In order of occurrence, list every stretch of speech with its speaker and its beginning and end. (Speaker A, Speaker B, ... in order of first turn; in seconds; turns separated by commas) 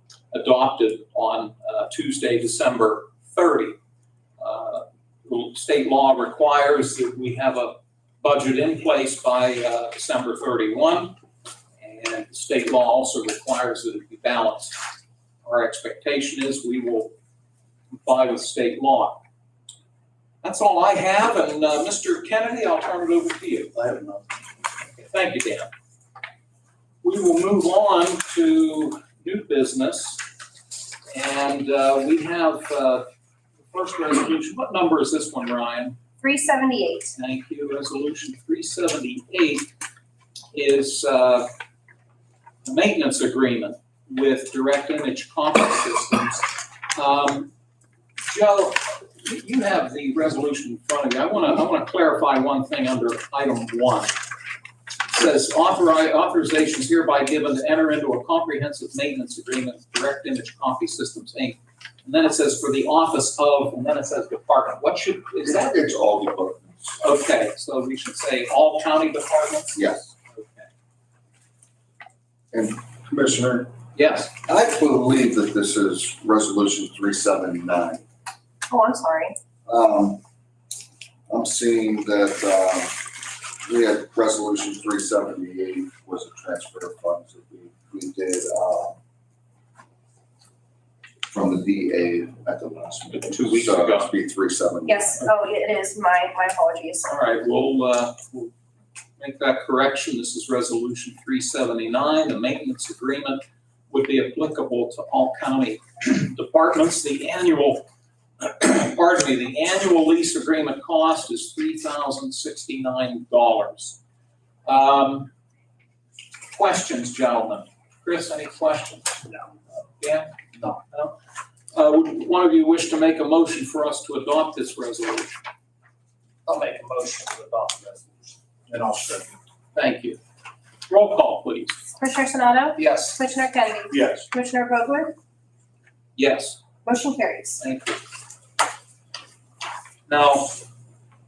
Speaker A: 0.3-3.8, Speaker A: 4.4-11.2, Speaker A: 11.8-14.8, Speaker A: 15.4-17.1, Speaker A: 17.9-19.2, Speaker A: 20.4-23.9, Speaker B: 23.8-24.2, Speaker A: 24.9-25.7, Speaker A: 27.0-30.2, Speaker A: 31.1-33.1, Speaker A: 33.7-36.0, Speaker C: 36.2-37.1, Speaker A: 37.2-39.7, Speaker A: 40.5-41.5, Speaker A: 42.6-47.5, Speaker A: 48.2-54.1, Speaker A: 55.1-65.7, Speaker D: 65.4-67.0, Speaker A: 67.0-70.7, Speaker D: 69.8-70.1, Speaker D: 72.5-73.7, Speaker A: 74.0-74.3, Speaker D: 74.4-78.0, Speaker C: 78.7-79.4, Speaker D: 79.7-80.2, Speaker D: 81.3-89.0, Speaker D: 91.3-95.1, Speaker A: 93.1-94.1, Speaker C: 94.9-97.1, Speaker A: 97.1-98.5, Speaker A: 99.2-107.9, Speaker A: 108.4-114.0, Speaker A: 114.7-115.3, Speaker A: 116.5-119.3, Speaker A: 120.0-121.1, Speaker A: 121.7-125.3, Speaker B: 126.5-129.3, Speaker A: 129.8-130.2, Speaker A: 130.9-131.8, Speaker C: 132.0-135.2, Speaker A: 132.8-133.1, Speaker A: 136.2-136.6, Speaker C: 136.8-137.6, Speaker A: 137.6-138.0, Speaker A: 140.1-140.6